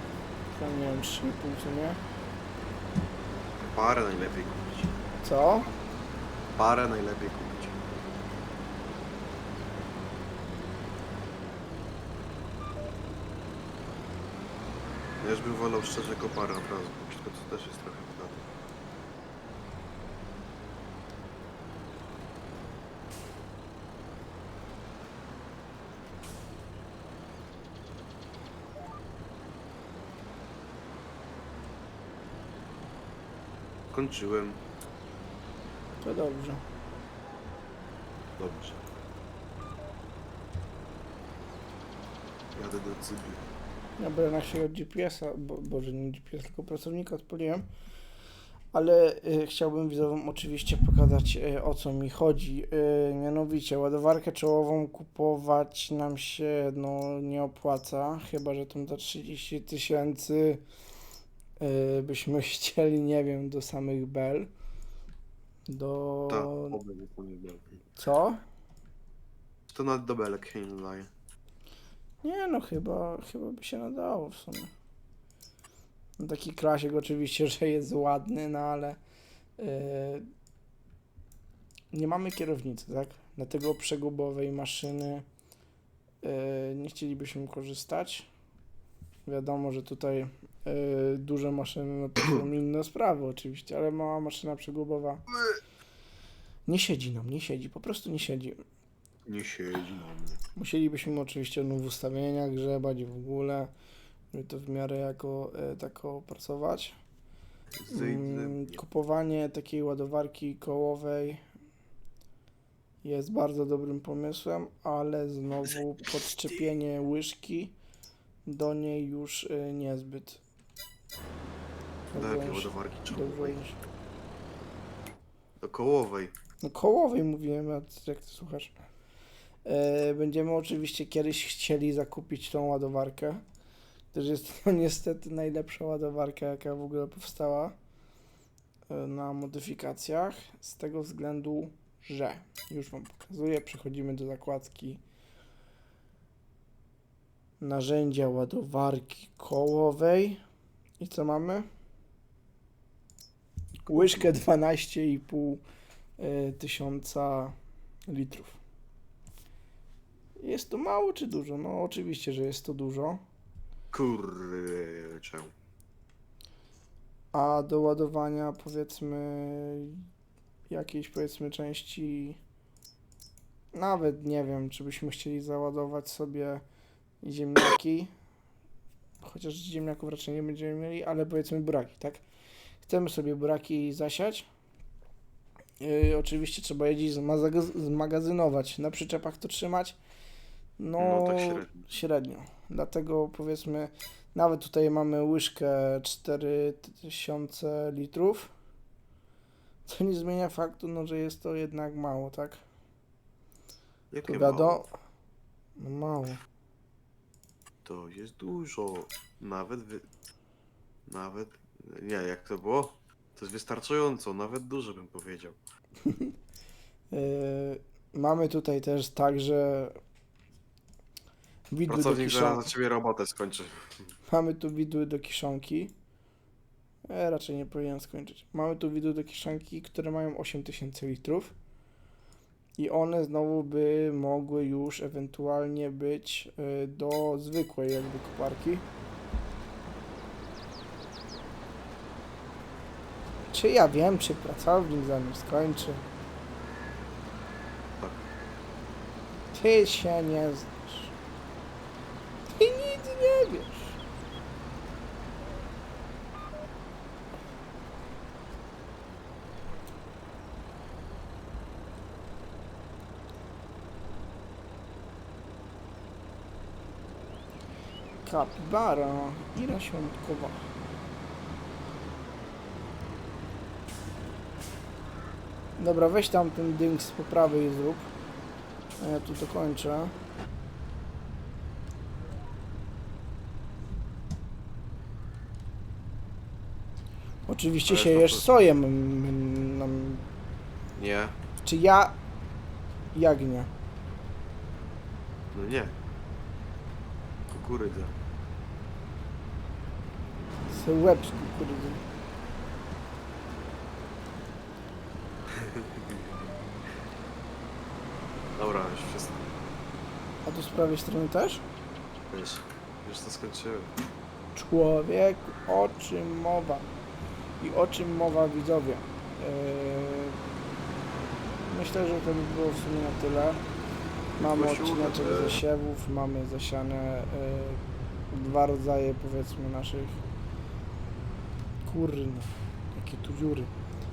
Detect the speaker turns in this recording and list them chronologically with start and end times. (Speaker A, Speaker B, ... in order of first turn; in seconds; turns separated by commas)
Speaker A: 0.5-2.0, Speaker B: 3.6-4.9, Speaker A: 5.2-5.7, Speaker B: 6.5-7.8, Speaker B: 15.2-18.4, Speaker B: 33.9-34.6, Speaker A: 36.0-36.6, Speaker B: 38.4-38.8, Speaker B: 42.5-43.4, Speaker A: 44.0-47.7, Speaker A: 48.7-60.6, Speaker A: 61.6-64.5, Speaker A: 65.7-66.8, Speaker B: 66.3-67.8, Speaker A: 68.0-68.4, Speaker B: 69.7-71.1, Speaker A: 72.2-74.7, Speaker A: 76.2-79.0, Speaker A: 79.6-80.2, Speaker A: 81.9-85.2, Speaker A: 86.2-88.3, Speaker A: 89.3-95.2, Speaker A: 96.7-98.6, Speaker B: 99.2-100.4, Speaker A: 100.5-103.7, Speaker A: 104.3-107.0, Speaker B: 107.8-108.8, Speaker A: 107.9-111.4, Speaker A: 113.0-117.7, Speaker A: 118.5-120.4, Speaker A: 122.1-123.8, Speaker B: 122.1-123.6, Speaker B: 125.6-126.3, Speaker A: 126.6-128.8, Speaker A: 129.6-133.4, Speaker A: 134.1-137.8, Speaker A: 138.9-145.0, Speaker A: 147.6-150.4, Speaker A: 151.0-151.7, Speaker B: 153.8-154.3, Speaker A: 153.9-155.6, Speaker A: 156.2-157.5, Speaker A: 158.1-158.6, Speaker A: 160.4-163.2, Speaker B: 163.9-165.5, Speaker A: 167.3-170.1, Speaker A: 170.7-172.4, Speaker A: 173.7-176.6, Speaker A: 177.2-178.1, Speaker A: 179.2-182.2, Speaker A: 182.8-184.5, Speaker A: 185.8-190.0, Speaker A: 190.8-198.5, Speaker B: 191.0-191.9, Speaker A: 199.8-202.6, Speaker B: 204.1-204.8, Speaker A: 204.2-204.9, Speaker A: 205.8-206.4, Speaker B: 207.8-210.1, Speaker B: 211.1-215.6, Speaker A: 216.0-216.3, Speaker A: 217.1-220.0, Speaker A: 221.7-222.7, Speaker B: 221.9-224.1, Speaker A: 224.3-225.9, Speaker A: 227.1-231.5, Speaker A: 232.8-238.8, Speaker A: 243.5-246.0, Speaker A: 249.5-251.1, Speaker A: 252.4-254.0, Speaker A: 268.2-270.6, Speaker A: 275.8-278.1, Speaker A: 279.0-280.1, Speaker A: 287.5-290.2, Speaker B: 287.9-288.4, Speaker B: 290.9-291.4, Speaker A: 291.6-292.1, Speaker A: 293.1-293.7, Speaker B: 295.5-295.9, Speaker B: 297.5-298.1, Speaker A: 300.7-302.0, Speaker B: 305.5-306.3, Speaker B: 308.6-309.5, Speaker A: 310.4-311.6, Speaker B: 312.3-313.9, Speaker A: 314.5-316.9, Speaker A: 317.6-320.4, Speaker A: 321.7-323.6, Speaker A: 324.4-330.2, Speaker B: 324.4-325.6, Speaker A: 331.8-333.7